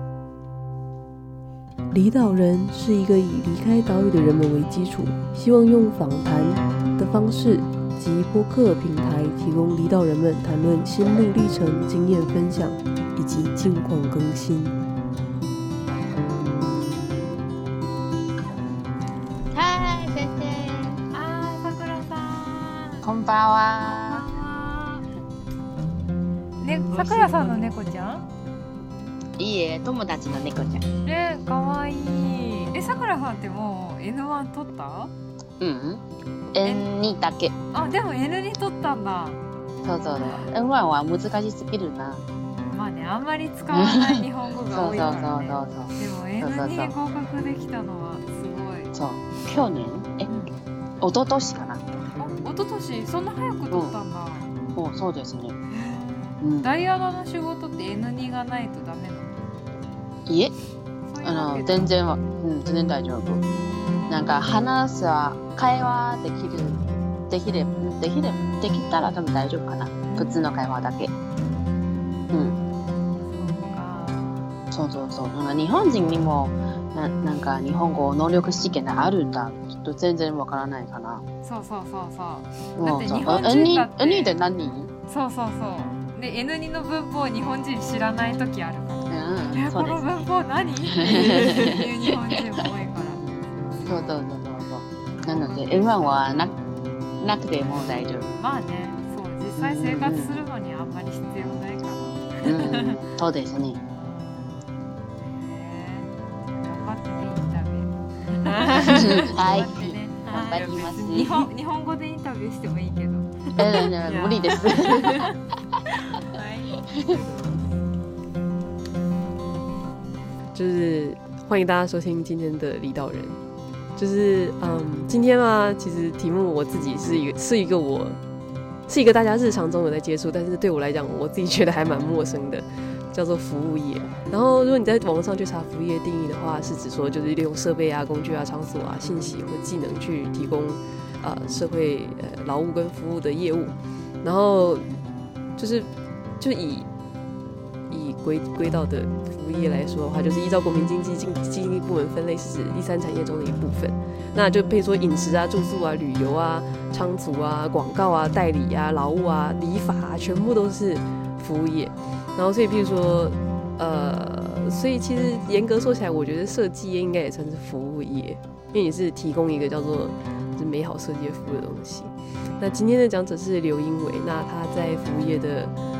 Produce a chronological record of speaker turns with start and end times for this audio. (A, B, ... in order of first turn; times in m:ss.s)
0:01.9-0:14.8 A
0:19.5-0:21.0 B
0:21.1-0:23.0 C
0:23.0-0:24.2 B
0:23.8-0:25.1 C
0:26.6-0:28.2 C
0:26.9-0:27.7 A
0:29.4-0:30.8 B
0:31.0-0:35.1 C
0:35.6-0:36.0 B
0:36.5-0:37.5 B
0:36.6-0:36.9 C
0:37.7-0:39.4 C
0:39.8-0:42.2 B
0:40.2-0:40.5 C
0:42.7-0:48.9 C
0:43.7-0:46.9 B
0:48.9-0:50.3 B
0:51.0-0:51.8 B
0:52.2-0:54.5 C
0:54.8-0:55.6 B
0:55.7-0:59.5 C
0:56.4-0:56.7 B
1:00.3-1:00.5 B
1:01.1-1:01.9 C
1:01.2-1:03.4 B
1:04.1-1:11.1 B
1:10.1-1:10.4 C
1:13.2-1:14.4 C
1:14.7-1:21.2 B
1:21.4-1:24.3 C
1:22.8-1:24.9 B
1:25.1-1:33.2 C
1:29.1-1:30.0 B
1:30.9-1:32.3 B
1:33.8-1:34.1 C
1:33.9-1:36.5 B
1:35.2-1:36.6 C
1:37.2-1:38.3 B
1:38.3-1:43.0 C
1:39.6-1:40.4 B
1:42.4-1:43.8 B
1:43.9-1:44.6 C
1:45.3-1:55.4 C
1:48.7-1:51.5 B
1:53.6-1:55.4 B
1:56.1-1:57.4 C
1:56.9-1:57.2 B
2:00.5-2:03.4 A
2:04.0-2:08.2 A
2:08.9-2:24.8 A
2:25.6-2:25.9 A
2:26.4-2:26.9 A
2:27.9-2:55.7 A